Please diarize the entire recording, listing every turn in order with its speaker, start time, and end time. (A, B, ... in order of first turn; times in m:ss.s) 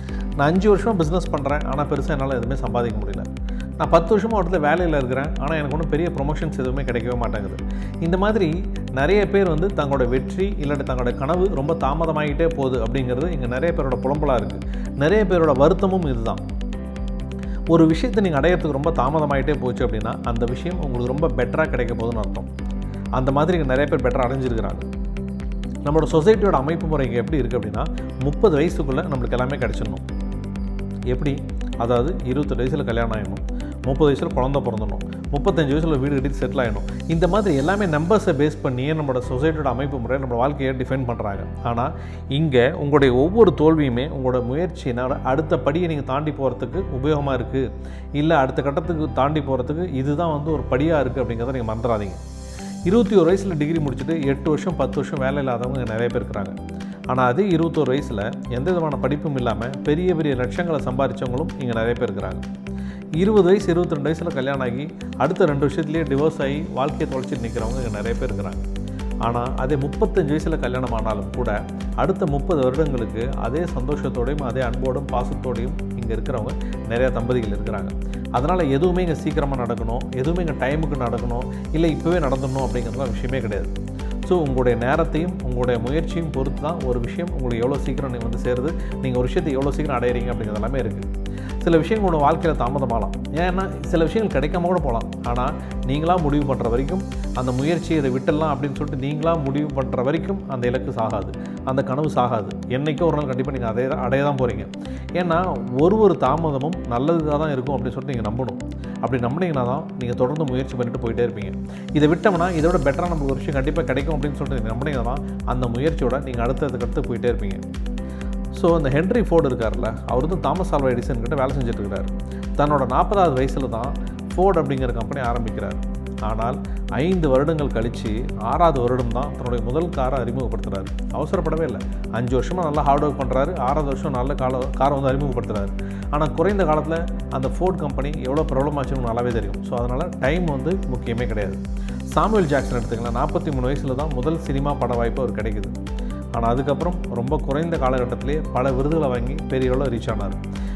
0:00.4-0:03.3 A
0:03.8-0:16.4 A
0:17.7-0:22.5 A
0:23.1-0:24.9 A
0:25.8-0:30.0 A
0:31.1-0:52.2 A
0:52.8-0:56.6 A
0:57.1-1:02.5 A
1:03.2-1:08.6 A
1:09.2-1:23.7 A
1:24.2-1:31.1 A
1:31.6-1:57.6 A
1:58.5-2:25.8 A
2:26.3-2:30.4 A